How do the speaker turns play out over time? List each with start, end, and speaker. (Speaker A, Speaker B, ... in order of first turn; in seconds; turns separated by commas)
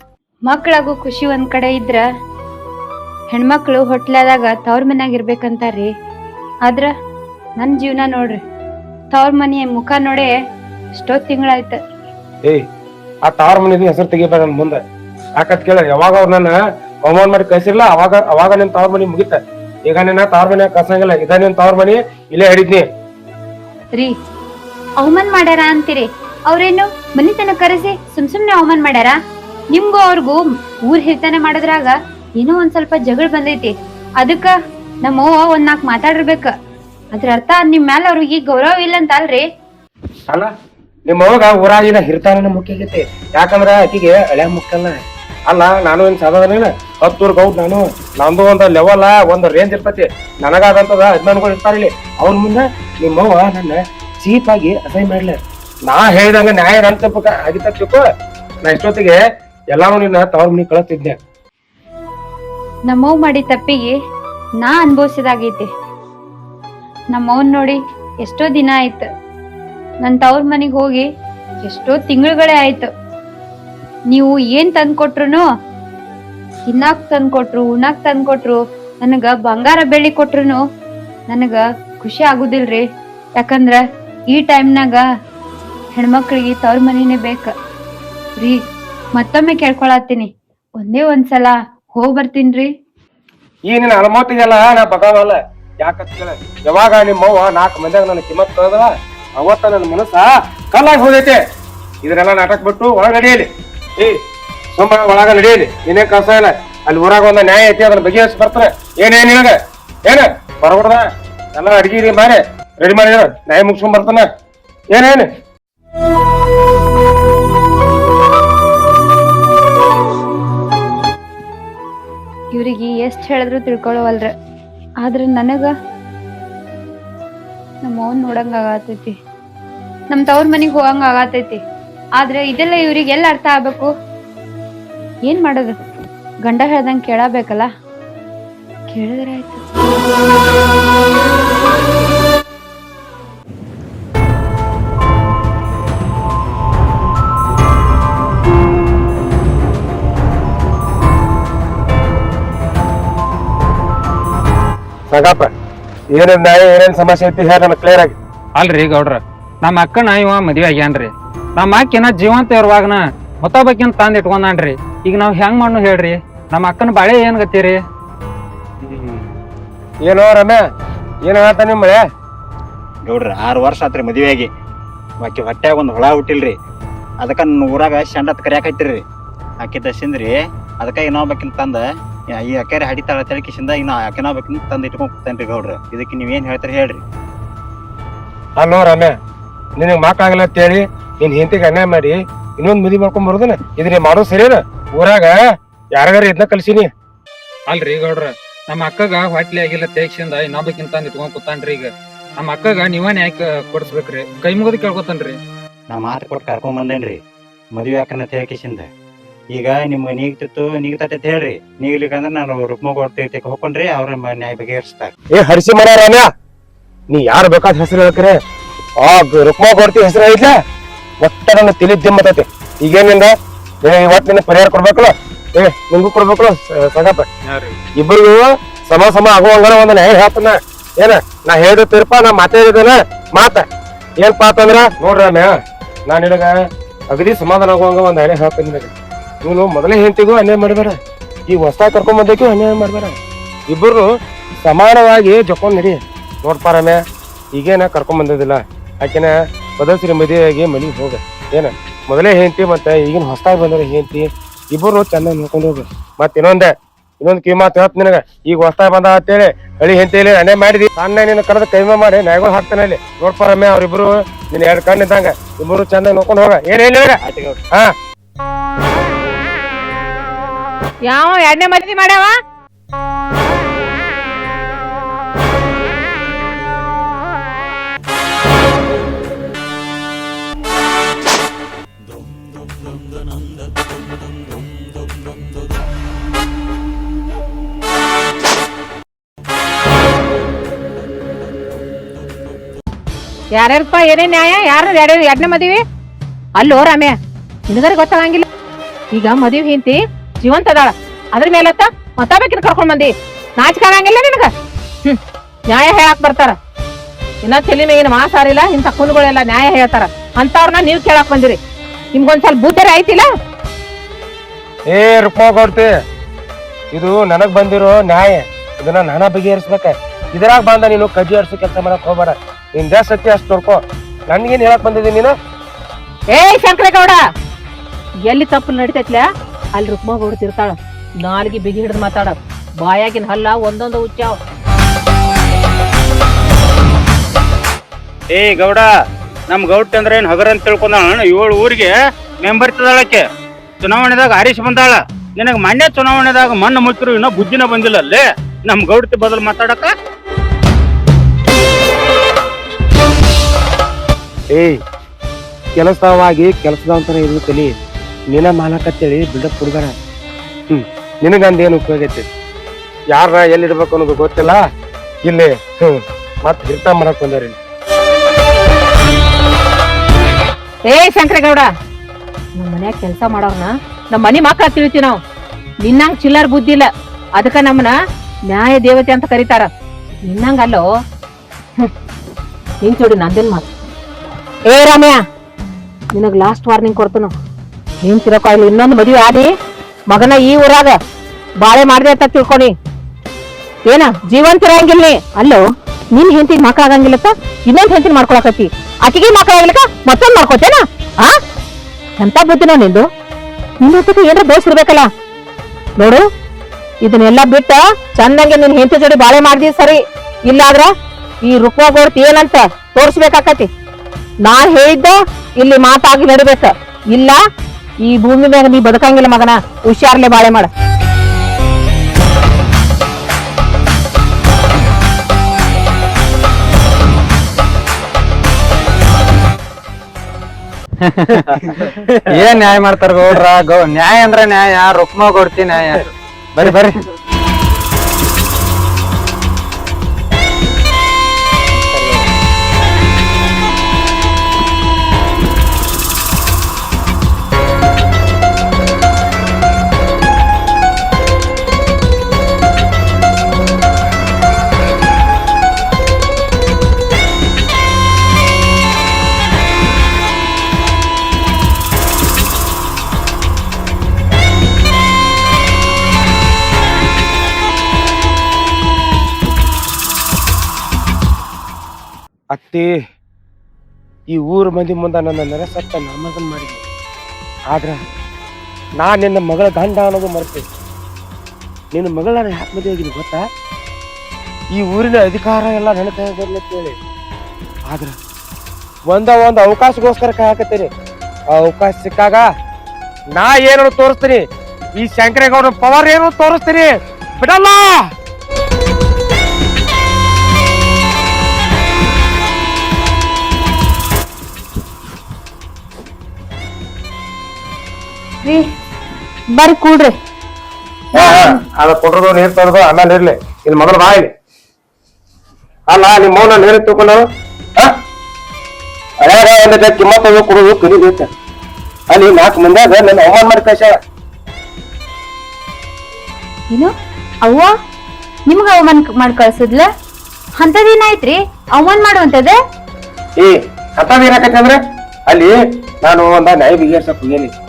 Speaker A: 0.5-2.0, Speaker A: 3.3-5.9, Speaker A: 7.6-8.4, Speaker A: 9.1-10.3, Speaker A: 10.9-11.8, Speaker B: 13.2-14.8, Speaker B: 15.4-22.8, Speaker A: 25.0-29.1, Speaker A: 29.7-34.5, Speaker A: 35.0-36.5, Speaker A: 37.1-39.4, Speaker B: 41.1-55.3, Speaker B: 55.9-58.0, Speaker B: 58.6-59.2, Speaker B: 59.7-61.1, Speaker A: 62.9-63.9, Speaker A: 64.6-65.6, Speaker A: 67.1-69.0, Speaker A: 70.0-71.0, Speaker A: 71.7-72.9, Speaker A: 74.1-75.4, Speaker A: 76.7-80.6, Speaker A: 81.3-82.8, Speaker A: 83.4-83.8, Speaker A: 84.3-85.0, Speaker A: 85.9-87.5, Speaker A: 89.2-90.3, Speaker A: 90.8-92.7, Speaker B: 93.7-101.4, Speaker B: 102.0-103.4, Speaker B: 104.7-109.5, Speaker B: 110.1-111.0, Speaker B: 111.5-114.2, Speaker B: 114.9-115.3, Speaker A: 122.5-124.3, Speaker A: 125.0-125.7, Speaker A: 127.8-129.1, Speaker A: 130.1-131.6, Speaker A: 132.2-133.9, Speaker A: 135.3-135.7, Speaker A: 136.4-137.7, Speaker A: 138.9-139.6, Speaker B: 155.1-155.5, Speaker B: 156.1-158.2, Speaker C: 158.6-167.8, Speaker B: 168.8-169.3, Speaker B: 170.1-170.6, Speaker B: 171.2-172.0, Speaker D: 173.0-174.5, Speaker D: 175.2-176.6, Speaker D: 177.2-179.0, Speaker D: 179.6-187.0, Speaker B: 188.6-189.1, Speaker B: 189.8-195.3, Speaker B: 195.9-196.9, Speaker C: 197.7-205.4, Speaker D: 205.9-207.2, Speaker D: 207.7-208.9, Speaker D: 209.5-215.1, Speaker B: 215.3-216.2, Speaker B: 217.1-218.3, Speaker B: 219.0-220.5, Speaker B: 221.2-223.3, Speaker B: 223.8-227.2, Speaker C: 227.5-227.7, Speaker B: 228.0-233.6, Speaker B: 234.2-235.5, Speaker B: 236.1-236.5, Speaker B: 237.1-238.9, Speaker B: 239.4-240.9, Speaker B: 241.5-243.2, Speaker B: 243.7-244.1, Speaker B: 244.6-247.0, Speaker B: 247.5-267.2, Speaker D: 267.2-267.6, Speaker E: 271.1-272.3, Speaker E: 293.5-295.8, Speaker E: 296.6-297.1, Speaker E: 297.7-298.4, Speaker E: 299.1-304.5, Speaker E: 305.7-306.5, Speaker E: 307.4-311.6, Speaker E: 312.1-313.2, Speaker B: 314.9-315.9, Speaker B: 316.9-325.3, Speaker E: 326.3-327.2, Speaker E: 328.3-329.2, Speaker E: 329.7-334.4, Speaker F: 338.3-338.9, Speaker F: 339.5-343.2, Speaker F: 343.8-349.9, Speaker B: 354.5-354.8, Speaker B: 355.8-357.7, Speaker B: 358.3-359.9, Speaker B: 360.7-362.2, Speaker B: 363.1-364.6, Speaker B: 365.2-367.6, Speaker E: 370.9-371.7, Speaker E: 372.6-375.2, Speaker E: 375.8-376.9, Speaker E: 377.4-377.9, Speaker E: 378.5-379.7, Speaker E: 380.2-380.8, Speaker E: 382.8-383.6, Speaker E: 384.7-385.2, Speaker E: 386.1-387.3, Speaker E: 388.0-389.5, Speaker E: 390.1-391.0, Speaker E: 391.6-392.7, Speaker E: 393.9-395.6, Speaker E: 396.1-401.3, Speaker E: 402.2-403.1, Speaker E: 403.8-405.1, Speaker E: 406.0-406.2, Speaker E: 407.0-410.9, Speaker E: 411.4-413.7, Speaker E: 414.4-417.4, Speaker E: 418.0-420.7, Speaker C: 431.0-437.0, Speaker C: 441.9-442.2, Speaker B: 472.5-472.9, Speaker B: 474.3-476.8, Speaker B: 477.7-478.0, Speaker B: 479.0-480.6, Speaker B: 481.9-483.4, Speaker B: 484.7-487.0, Speaker B: 487.9-488.1, Speaker B: 489.1-490.9, Speaker B: 491.5-492.4, Speaker B: 493.3-494.4, Speaker B: 495.0-498.1, Speaker A: 509.5-510.1, Speaker A: 511.1-511.6, Speaker B: 511.1-514.3, Speaker B: 515.9-517.2, Speaker B: 519.2-521.3, Speaker B: 522.1-523.9, Speaker A: 527.4-527.7, Speaker A: 528.5-529.9, Speaker A: 530.6-532.5, Speaker B: 533.4-537.5